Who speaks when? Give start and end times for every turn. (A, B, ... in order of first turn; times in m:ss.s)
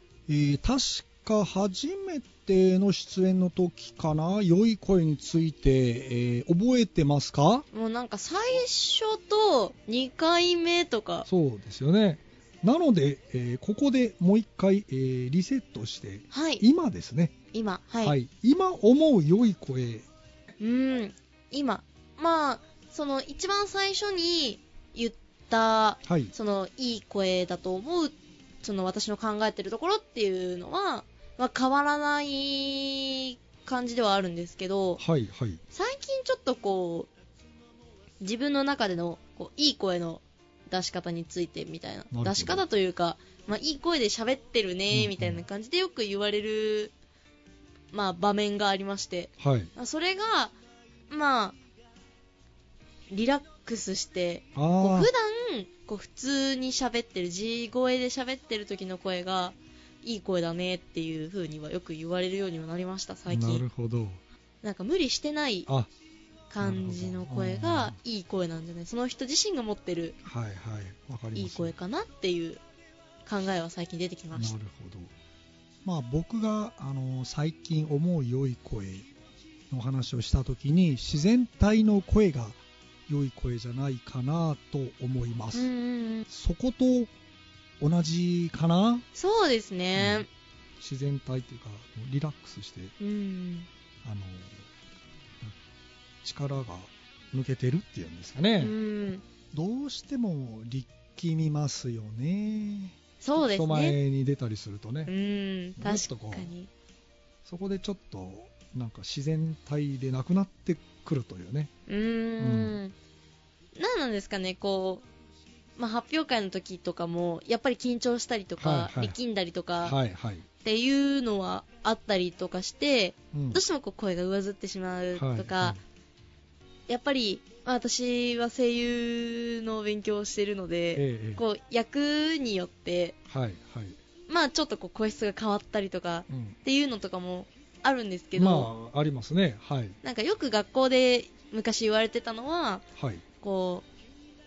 0:00.3-0:07.6 A
0:07.7-0:11.3 B
0:11.3-0:17.3 A
0:16.3-0:16.6 B
0:17.5-0:18.2 B
0:18.0-0:20.0 A
0:20.6-0:35.0 B
0:26.0-0:26.3 A
0:35.0-0:35.6 A
0:35.7-0:37.1 B
0:38.2-0:46.9 B
0:42.1-0:42.6 A
0:44.9-0:45.4 A
0:47.9-0:50.5 B
0:49.4-0:49.7 A
0:51.1-0:51.6 B
0:53.1-1:03.6 B
0:54.5-0:55.1 A
1:03.3-1:04.2 A
1:04.6-1:05.7 B
1:06.5-1:10.2 B
1:06.6-1:08.0 A
1:10.2-1:11.7 A
1:11.3-1:12.6 B
1:13.2-1:14.6 B
1:14.3-1:15.1 A
1:15.8-1:19.1 A
1:19.7-1:25.7 A
1:25.5-1:26.2 B
1:26.3-1:27.1 A
1:27.8-1:29.0 A
1:29.1-1:30.3 B
1:30.0-1:30.2 A
1:30.8-1:32.9 A
1:33.0-1:33.7 B
1:34.0-1:34.7 A
1:36.2-1:38.7 A
1:38.6-1:39.2 B
1:39.5-1:45.1 A
1:43.2-1:44.0 B
1:45.0-1:46.7 B
1:45.8-1:46.5 A
1:47.4-1:51.7 A
1:51.9-1:52.9 B
1:52.4-1:52.8 A
1:53.8-1:55.0 B
1:55.8-2:00.0 B
1:58.6-1:59.2 A
1:59.8-2:00.4 A
2:00.6-2:05.8 B
2:03.3-2:03.6 A
2:05.1-2:05.8 A
2:06.9-2:13.2 B
2:10.9-2:11.4 A
2:13.3-2:14.0 A
2:14.3-2:18.7 B
2:16.3-2:16.6 A
2:18.4-2:20.0 A
2:20.0-2:22.8 B
2:23.0-2:23.2 A
2:23.4-2:23.8 B